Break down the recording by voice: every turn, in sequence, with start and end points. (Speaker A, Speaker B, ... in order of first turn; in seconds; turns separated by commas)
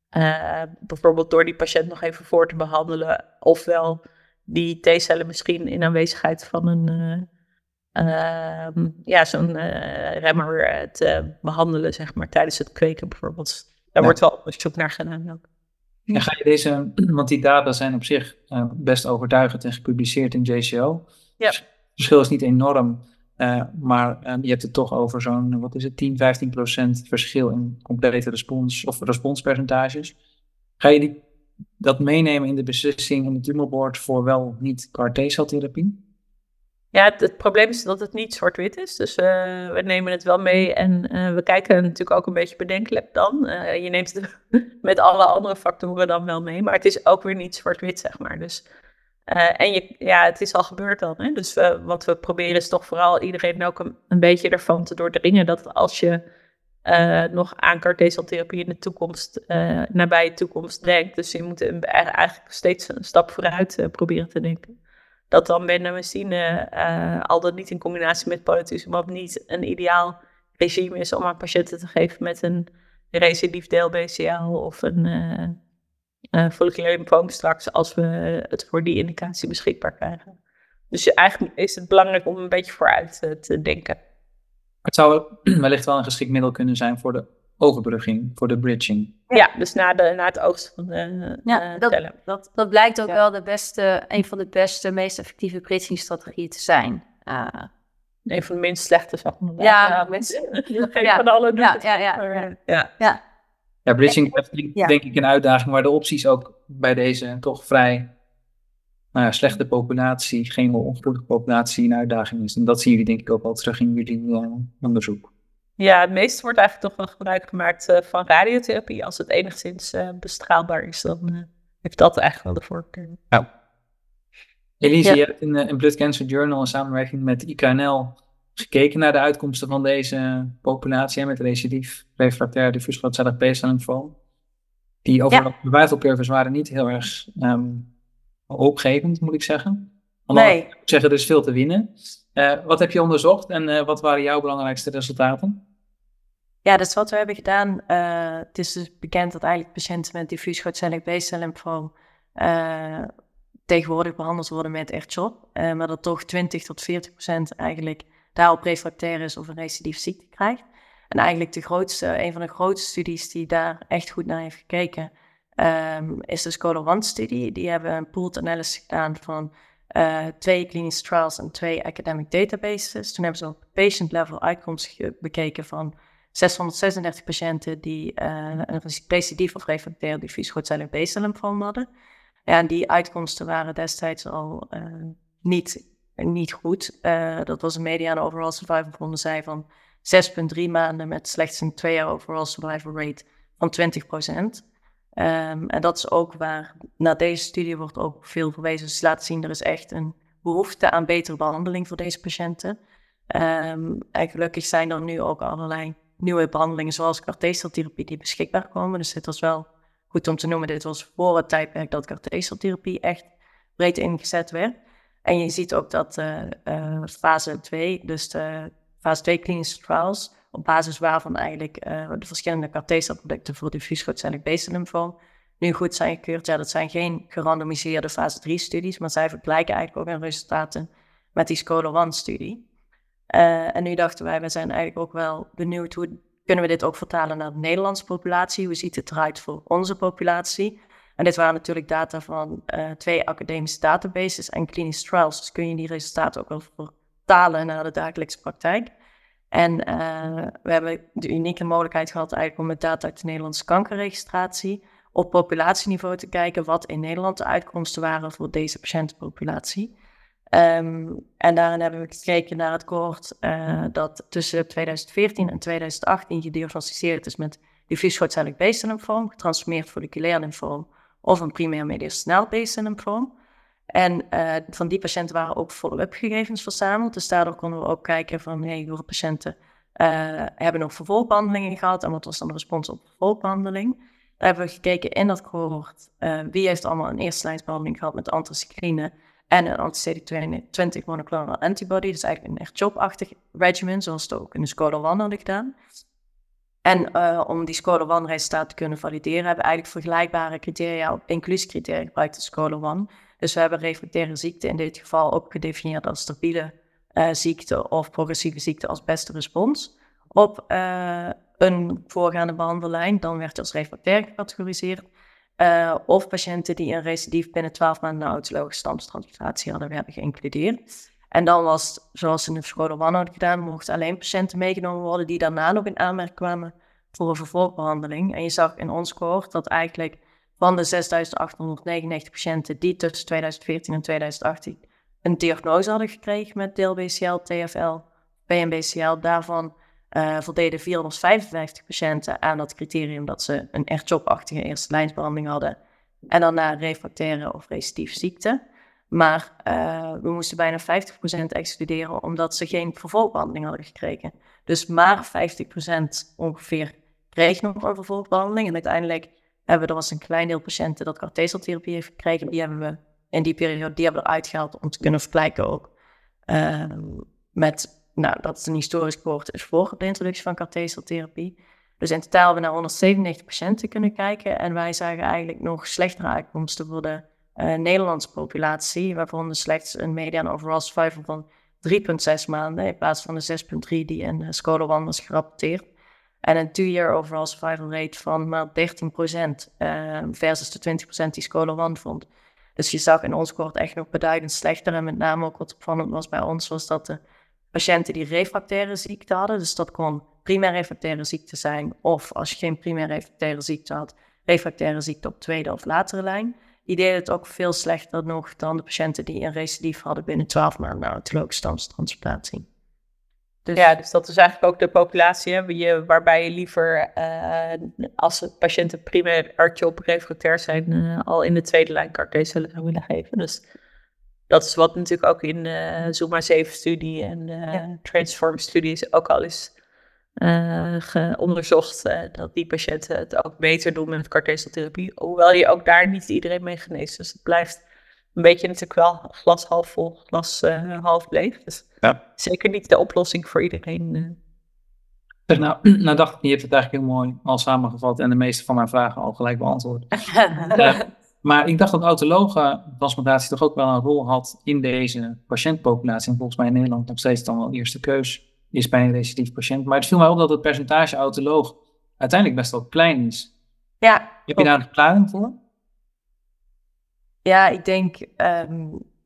Speaker A: 0.1-7.3, Speaker A: 8.0-15.4, Speaker B: 16.1-21.1, Speaker B: 22.0-30.1, Speaker B: 30.8-31.2, Speaker B: 31.8-36.0, Speaker A: 36.9-48.6, Speaker A: 49.3-56.2, Speaker A: 56.9-64.8, Speaker A: 65.3-75.6, Speaker A: 76.3-80.3, Speaker A: 80.9-84.0, Speaker B: 84.8-89.2, Speaker A: 89.3-92.1, Speaker C: 91.5-97.7, Speaker A: 98.3-102.9, Speaker C: 99.6-103.2, Speaker B: 103.9-108.1, Speaker B: 109.1-115.3, Speaker A: 115.8-123.2, Speaker B: 124.8-134.1, Speaker B: 135.1-137.9, Speaker B: 138.5-145.6, Speaker D: 140.3-140.7, Speaker D: 146.7-153.1, Speaker D: 153.7-181.9, Speaker D: 182.5-194.6, Speaker D: 195.2-202.8, Speaker D: 203.3-214.7, Speaker D: 215.2-232.6, Speaker D: 233.3-248.9, Speaker D: 249.5-259.9, Speaker D: 260.5-273.3, Speaker D: 273.9-295.7, Speaker D: 296.9-315.0, Speaker D: 315.6-320.8, Speaker D: 321.3-345.8, Speaker D: 346.3-348.6, Speaker D: 349.1-365.9, Speaker D: 366.5-385.8, Speaker D: 386.4-397.2, Speaker D: 397.7-412.7, Speaker A: 413.8-423.6, Speaker A: 424.5-429.7, Speaker A: 430.4-437.8, Speaker A: 438.4-444.4, Speaker B: 445.5-450.1, Speaker C: 450.4-450.7, Speaker B: 450.7-463.5, Speaker D: 464.0-464.7, Speaker B: 464.5-465.6, Speaker D: 467.4-469.0